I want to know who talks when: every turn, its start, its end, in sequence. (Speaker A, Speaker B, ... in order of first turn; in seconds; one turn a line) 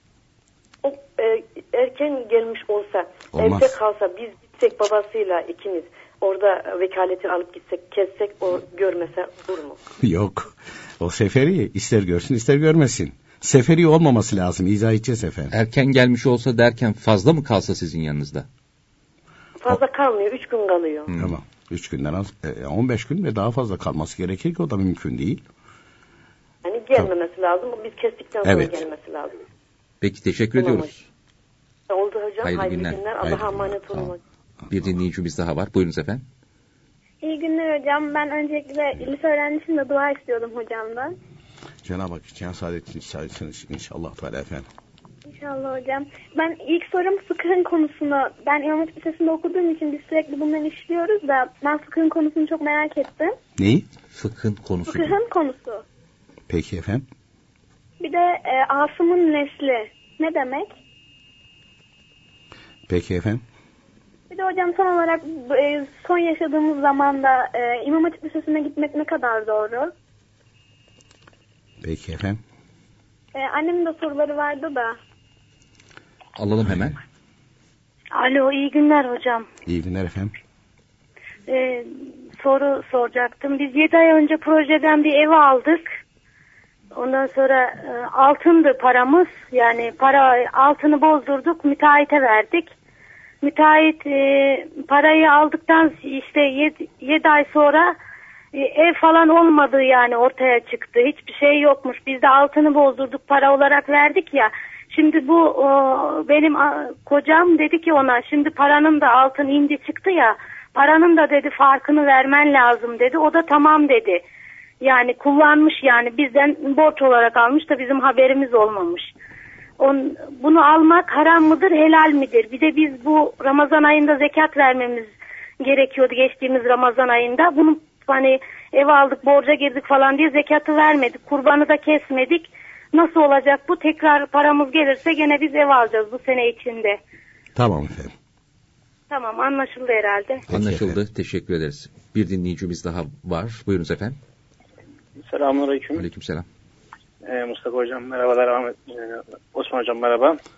Speaker A: 0.8-9.8
Speaker B: 3.3-3.7
Speaker B: 10.0-15.6
Speaker C: 15.5-18.5
Speaker A: 19.6-21.1
Speaker C: 21.1-21.4
Speaker B: 21.1-25.4
Speaker A: 26.6-29.4
Speaker B: 28.4-28.9
Speaker C: 30.0-31.0
Speaker A: 30.6-30.9
Speaker A: 31.9-34.2
Speaker C: 32.4-34.1
Speaker C: 34.7-36.2
Speaker D: 37.2-41.2
Speaker B: 41.8-44.7
Speaker D: 45.3-53.4
Speaker B: 53.6-53.9
Speaker C: 54.1-55.2
Speaker D: 54.9-55.9
Speaker B: 56.5-57.0
Speaker D: 58.0-60.8
Speaker B: 62.9-63.4
Speaker D: 64.3-69.9
Speaker B: 71.8-72.4
Speaker D: 73.3-75.0
Speaker C: 76.4-77.0
Speaker E: 78.2-79.5
Speaker B: 79.7-80.3
Speaker E: 81.5-85.8
Speaker E: 86.9-92.7
Speaker E: 93.4-98.0
Speaker E: 98.5-114.2
Speaker E: 114.8-119.1
Speaker E: 119.8-125.1
Speaker E: 125.6-137.0
Speaker B: 137.6-138.1
Speaker E: 139.1-140.5
Speaker B: 140.5-141.0
Speaker C: 140.5-144.2
Speaker F: 145.3-146.1
Speaker C: 145.9-146.5
Speaker F: 147.2-150.4